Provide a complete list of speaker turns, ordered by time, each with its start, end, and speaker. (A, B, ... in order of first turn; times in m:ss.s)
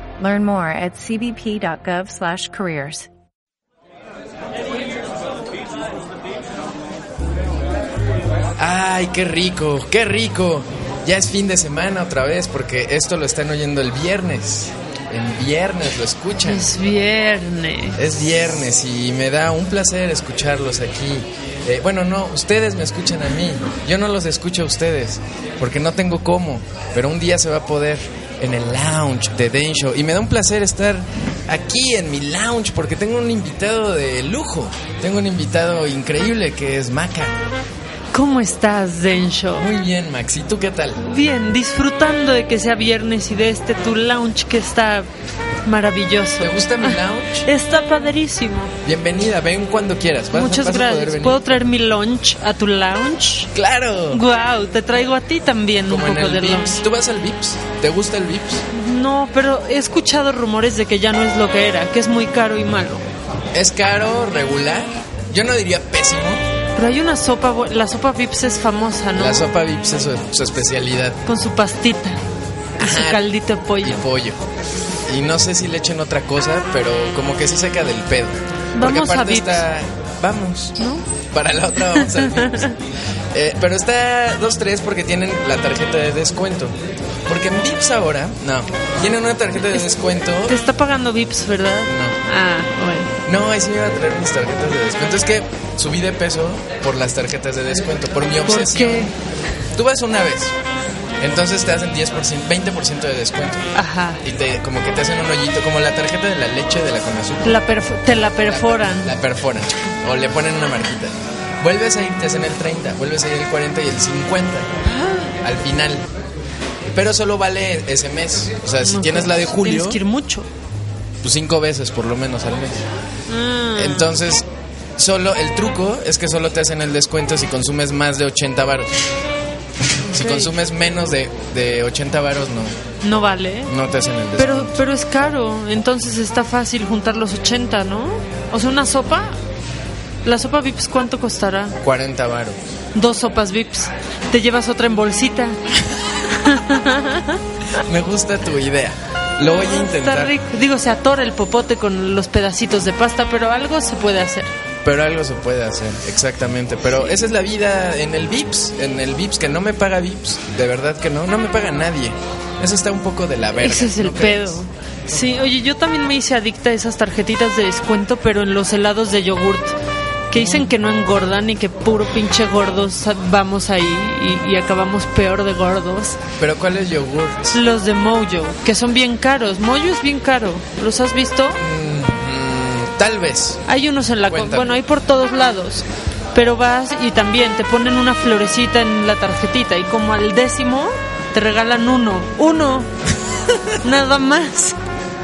0:00.2-0:03.1 A
0:08.6-0:16.7 B
0:16.4-0:18.1 C
0:18.0-0:37.4 B
0:38.1-0:39.7 C
0:39.6-0:41.0 B
0:41.0-0:45.1 C
0:45.6-0:48.7 C
0:46.4-0:47.5 B
0:48.8-0:51.6 B
0:50.3-0:53.5 C
0:53.5-0:54.2 B
0:54.1-0:56.8 C
0:55.9-0:58.6 B
0:58.7-1:03.0 C
1:03.5-1:06.4 B
1:06.8-1:09.5 C
1:09.2-1:11.2 B
1:11.3-1:12.2 C
1:12.8-1:13.3 B
1:12.8-1:14.0 C
1:13.8-1:14.4 B
1:15.1-1:20.8 B
1:18.8-1:19.6 C
1:20.8-1:21.0 C
1:21.3-1:22.8 B
1:21.9-1:22.7 C
1:23.3-1:26.8 B
1:27.3-1:30.6 B
1:30.5-1:33.1 C
1:31.9-1:32.2 B
1:33.2-1:39.1 B
1:38.5-1:39.1 C
1:39.8-1:40.6 B
1:41.2-1:43.7 B
1:43.8-1:44.2 C
1:44.2-1:47.6 B
1:47.4-1:49.1 C
1:48.5-1:54.7 B
1:54.8-1:55.4 C
1:55.4-1:56.1 B
1:56.9-2:00.0 B
1:58.8-2:00.5 C
2:01.2-2:02.8 B
2:03.3-2:04.1 C
2:03.8-2:09.0 B
2:10.0-2:10.5 C
2:10.1-2:12.8 B
2:13.0-2:13.7 C
2:13.7-2:14.8 B
2:14.4-2:19.4 C
2:20.2-2:21.8 C
2:21.8-2:22.6 B
2:23.0-2:25.6 C
2:26.2-2:27.4 C
2:27.8-2:30.4 B
2:29.4-2:34.5 C
2:34.8-2:44.6 B
2:43.6-2:49.8 C
2:50.3-2:56.2 C
2:50.4-2:50.7 B
2:56.4-2:57.6 B
2:57.5-3:01.6 C
3:01.6-3:03.6 B
3:03.7-3:12.9 C
3:04.3-3:04.7 B
3:13.8-3:14.8 C